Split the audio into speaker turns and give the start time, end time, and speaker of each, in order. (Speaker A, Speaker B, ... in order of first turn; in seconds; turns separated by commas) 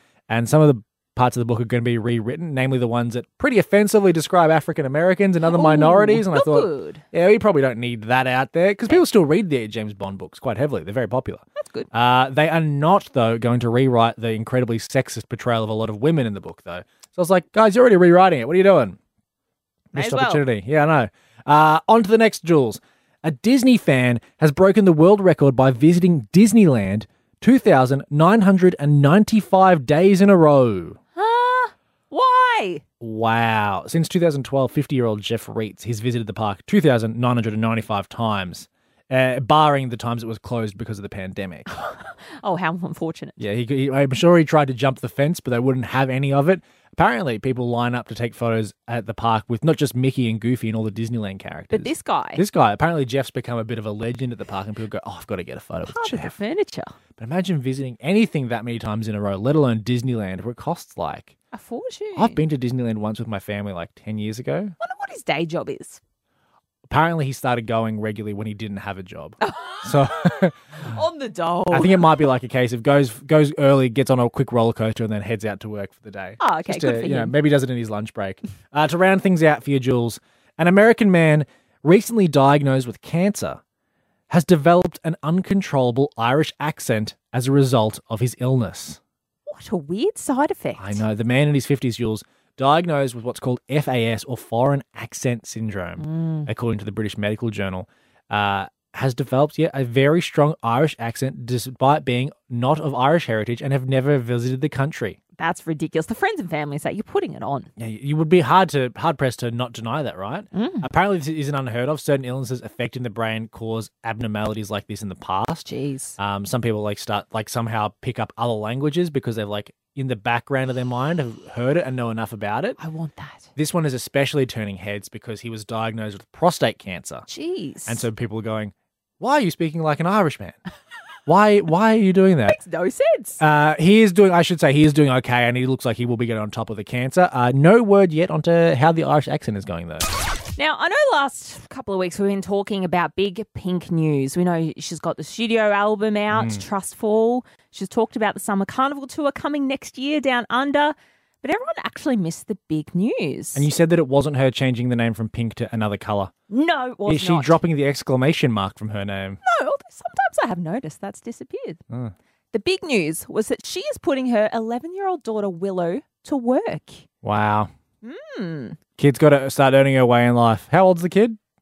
Speaker A: 0.3-19.0, Speaker B: 5.4-7.0, Speaker B: 11.6-11.9, Speaker B: 19.9-20.4, Speaker A: 19.9-31.0, Speaker B: 31.2-32.8, Speaker A: 33.0-41.7, Speaker B: 41.7-43.4, Speaker A: 43.4-56.4, Speaker B: 51.7-52.4, Speaker B: 55.9-57.0, Speaker A: 57.2-61.4, Speaker B: 61.5-62.4, Speaker A: 62.2-64.7, Speaker B: 64.8-66.0, Speaker A: 66.9-70.5, Speaker B: 69.4-72.2, Speaker A: 71.7-83.6, Speaker B: 76.4-77.3, Speaker A: 84.3-89.0, Speaker B: 89.5-91.0, Speaker A: 90.8-105.2, Speaker B: 96.0-96.5, Speaker B: 105.4-107.7, Speaker A: 107.8-115.7, Speaker B: 110.5-110.9, Speaker B: 115.7-116.2, Speaker A: 116.2-122.8, Speaker B: 122.8-123.5, Speaker A: 123.6-127.3, Speaker B: 127.3-128.1, Speaker A: 127.9-130.6, Speaker A: 131.3-132.6, Speaker B: 132.5-133.4, Speaker A: 133.4-140.1, Speaker B: 140.6-153.7, Speaker A: 146.3-146.6, Speaker A: 153.6-156.3, Speaker B: 156.5-157.6, Speaker A: 157.1-159.4, Speaker B: 159.4-161.8, Speaker B: 162.5-167.0, Speaker A: 167.2-167.7, Speaker B: 168.0-168.8, Speaker A: 169.0-171.4